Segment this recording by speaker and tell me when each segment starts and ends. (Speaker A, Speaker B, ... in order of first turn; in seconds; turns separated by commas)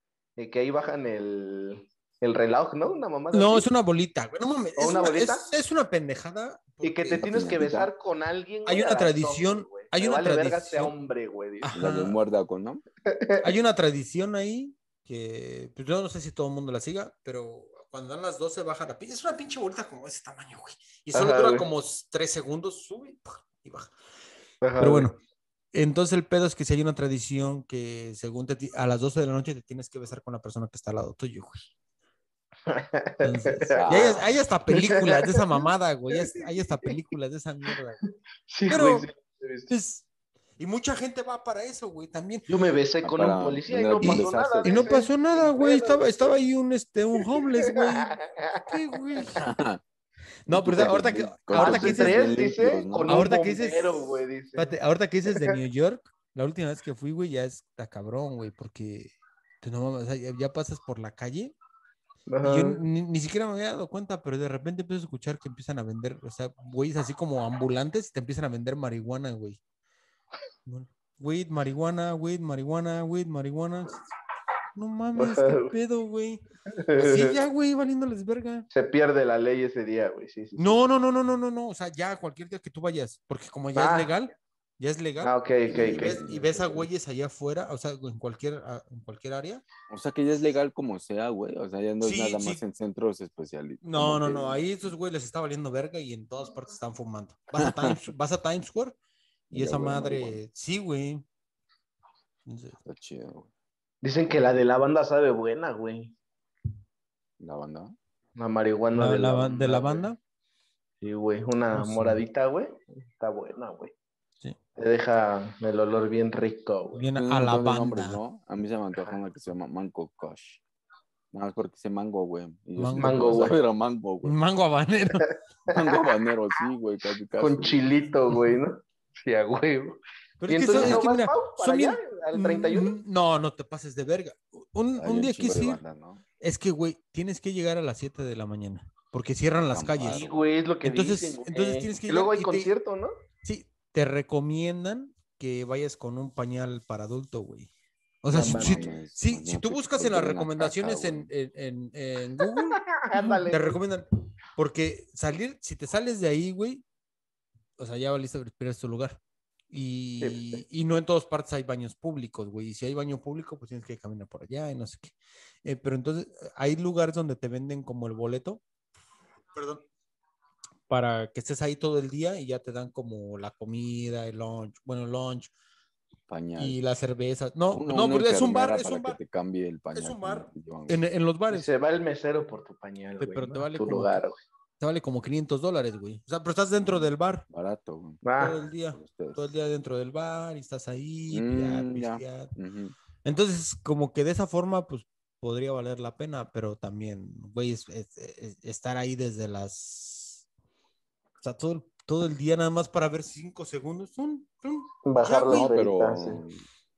Speaker A: 0.4-3.7, Speaker B: 3.3-7.5, Speaker A: 4.8-5.5, Speaker A: 6.8-11.8, Speaker C: 7.2-7.9, Speaker B: 8.6-10.9, Speaker B: 11.6-12.2, Speaker C: 11.7-12.8, Speaker A: 13.1-13.5, Speaker B: 13.4-23.9, Speaker A: 21.1-21.7, Speaker A: 24.6-25.1, Speaker B: 24.8-25.2, Speaker B: 25.7-31.7, Speaker A: 32.7-35.4, Speaker B: 33.2-38.0, Speaker C: 33.7-34.2, Speaker A: 36.1-36.9, Speaker A: 38.5-39.7, Speaker B: 38.7-39.1, Speaker B: 39.7-40.0, Speaker B: 40.6-42.5, Speaker A: 42.5-46.4, Speaker C: 43.0-44.9, Speaker B: 44.0-49.4, Speaker A: 47.4-48.7, Speaker C: 49.3-49.8, Speaker B: 50.5-52.2, Speaker C: 50.5-53.3, Speaker A: 51.5-54.7, Speaker B: 53.1-61.5, Speaker A: 62.3-62.8, Speaker B: 62.4-69.6, Speaker B: 70.7-74.0, Speaker B: 74.7-76.4, Speaker A: 75.2-75.7, Speaker A: 76.7-77.4, Speaker B: 77.0-78.7, Speaker A: 78.7-80.8, Speaker B: 80.6-89.6, Speaker A: 83.7-84.1, Speaker A: 85.2-86.2, Speaker C: 85.7-86.9, Speaker C: 89.9-94.7, Speaker B: 92.0-92.6, Speaker B: 93.8-99.0, Speaker C: 97.5-98.0, Speaker B: 99.5-101.2, Speaker C: 99.5-100.4, Speaker B: 102.5-102.8, Speaker C: 102.8-103.5, Speaker A: 104.0-106.1, Speaker C: 107.4-107.9, Speaker A: 108.3-110.1, Speaker B: 108.9-110.2, Speaker A: 111.0-113.9, Speaker B: 111.7-112.2, Speaker A: 114.8-117.1, Speaker B: 116.9-118.2, Speaker C: 117.2-120.6, Speaker C: 121.3-124.3, Speaker B: 122.8-123.5, Speaker A: 123.0-123.5, Speaker B: 124.2-125.3, Speaker C: 125.7-127.8, Speaker A: 125.7-126.0, Speaker A: 127.4-132.9, Speaker B: 130.4-135.8, Speaker C: 130.7-131.0, Speaker C: 134.9-136.2, Speaker B: 136.4-140.2, Speaker C: 139.7-140.5, Speaker A: 140.1-143.1, Speaker B: 140.8-142.7, Speaker B: 143.4-147.7, Speaker B: 148.2-156.8, Speaker C: 148.3-151.3, Speaker A: 148.3-148.9, Speaker A: 152.9-153.8, Speaker B: 157.8-159.2, Speaker B: 159.7-168.6, Speaker A: 160.2-160.6, Speaker B: 169.5-169.8, Speaker B: 170.9-175.5, Speaker C: 176.3-176.8, Speaker B: 176.6-179.2, Speaker C: 177.7-181.0, Speaker B: 179.9-181.7, Speaker A: 181.5-184.4, Speaker B: 183.2-184.2, Speaker B: 184.8-187.4, Speaker C: 187.5-188.2, Speaker A: 188.2-188.6, Speaker B: 188.4-192.5, Speaker C: 188.9-189.5, Speaker C: 191.3-192.9, Speaker B: 193.2-200.4, Speaker B: 201.4-206.4, Speaker A: 205.0-206.4, Speaker C: 205.5-206.6